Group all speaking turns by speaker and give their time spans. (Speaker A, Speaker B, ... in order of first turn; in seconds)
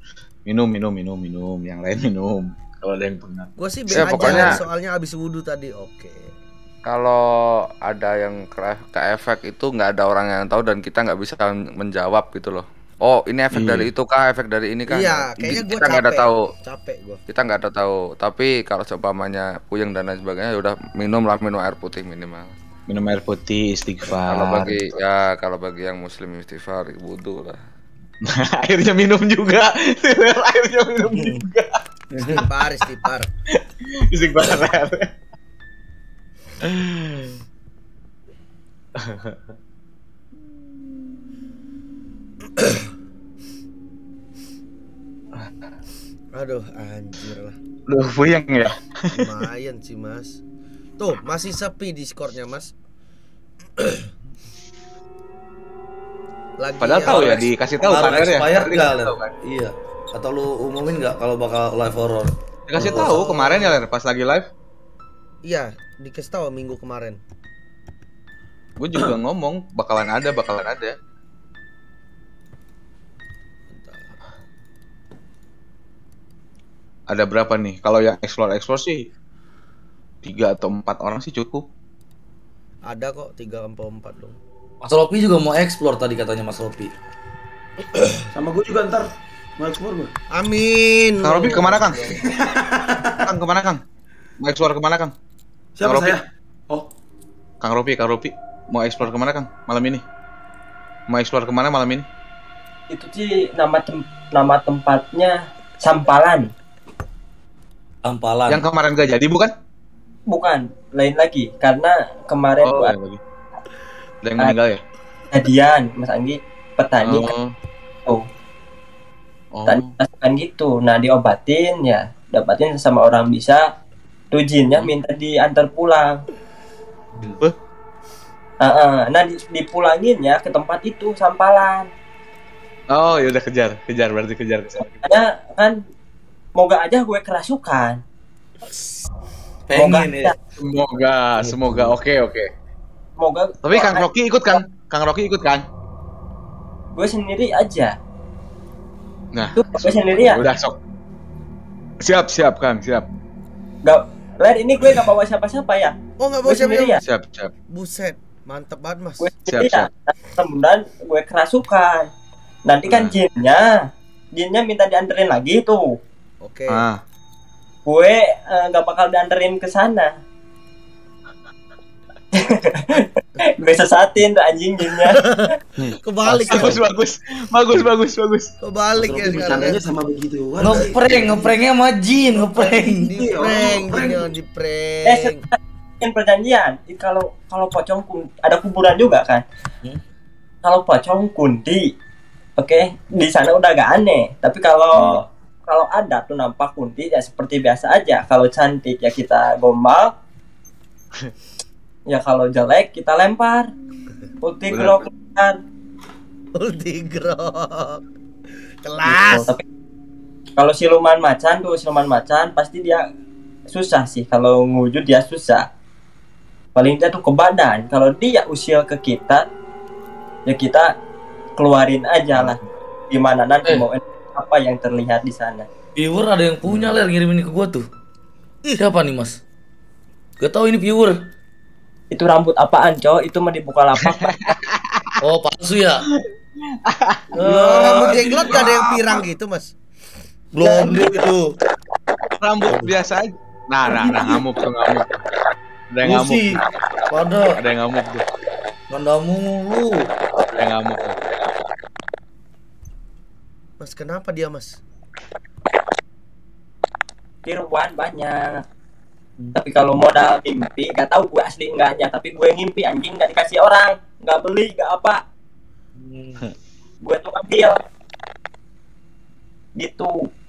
Speaker A: 0.5-4.6, 13.5-13.9, 22.9-24.9, 28.2-32.4, 33.5-35.1, 36.6-37.4, 39.0-39.4, 47.9-49.4, 56.8-59.3, 62.7-64.5, 68.8-71.0, 77.1-79.1, 80.2-81.6, 91.2-92.2, 93.2-93.8, 94.4-95.1, 95.8-96.2, 97.6-100.0, 101.1-102.0, 108.5-109.5, 112.6-113.2, 114.2-114.8, 117.0-117.5, 119.5-120.0, 132.9-135.1, 140.6-142.5, 143.6-145.7, 149.3-150.8, 152.0-153.1, 157.1-157.5, 159.5-159.9, 162.9-163.2, 166.7-167.0, 175.9-178.5, 194.9-195.2, 204.7-205.0, 226.7-227.0, 234.0-235.2, 236.1-237.2, 242.4-245.2, 245.9-246.6, 247.6-248.3, 250.5-251.2
Speaker B: 3.6-6.3, 14.9-17.2, 32.2-33.3, 46.3-47.6, 49.1-50.4, 51.0-52.7, 53.8-54.1, 56.6-57.5, 65.4-67.2, 73.7-74.2, 82.9-84.4, 90.3-92.2, 156.2-157.0, 157.7-159.3, 166.4-166.8, 175.1-175.5, 176.0-176.8, 178.6-179.8, 182.3-185.5, 206.6-208.0, 208.8-209.6, 237.5-239.7, 253.8-254.8
Speaker C: 3.9-4.6, 6.9-7.2, 7.8-16.5, 17.3-22.5, 24.2-27.6
Speaker D: 31.0-31.4, 32.2-32.4, 57.8-63.8, 84.8-86.9, 108.0-108.6, 139.7-140.3, 141.3-142.0, 180.6-183.2, 226.0-227.9, 228.7-229.4, 230.4-231.3, 235.2-236.1, 237.4-238.3, 240.6-241.6, 242.7-242.9, 246.0-247.6, 248.9-250.1, 266.0-266.5
Speaker E: 88.3-90.1, 92.2-93.2, 95.8-96.9, 179.0-181.6, 183.1-184.3, 237.4-239.2, 240.7-241.2, 243.9-244.4
Speaker F: 102.9-106.5, 110.3-112.9, 115.3-117.3, 119.7-123.7, 124.3-126.2, 128.6-131.9, 135.0-135.8, 136.6-138.0, 139.8-140.3, 143.2-144.6, 146.9-147.9, 149.5-150.4, 153.8-155.9, 156.5-157.0, 159.2-162.1, 162.7-165.9, 167.9-170.1, 172.3-175.3, 185.1-185.3, 186.0-189.4, 190.6-191.9, 192.6-200.1, 202.1-203.7, 204.4-205.6, 209.1-209.6, 210.6-213.0, 213.7-215.7, 216.8-219.5, 220.5-220.9, 221.6-222.6, 223.1-225.7, 232.1-234.5, 257.4-258.5, 259.6-265.2, 267.0-267.8, 269.8-270.1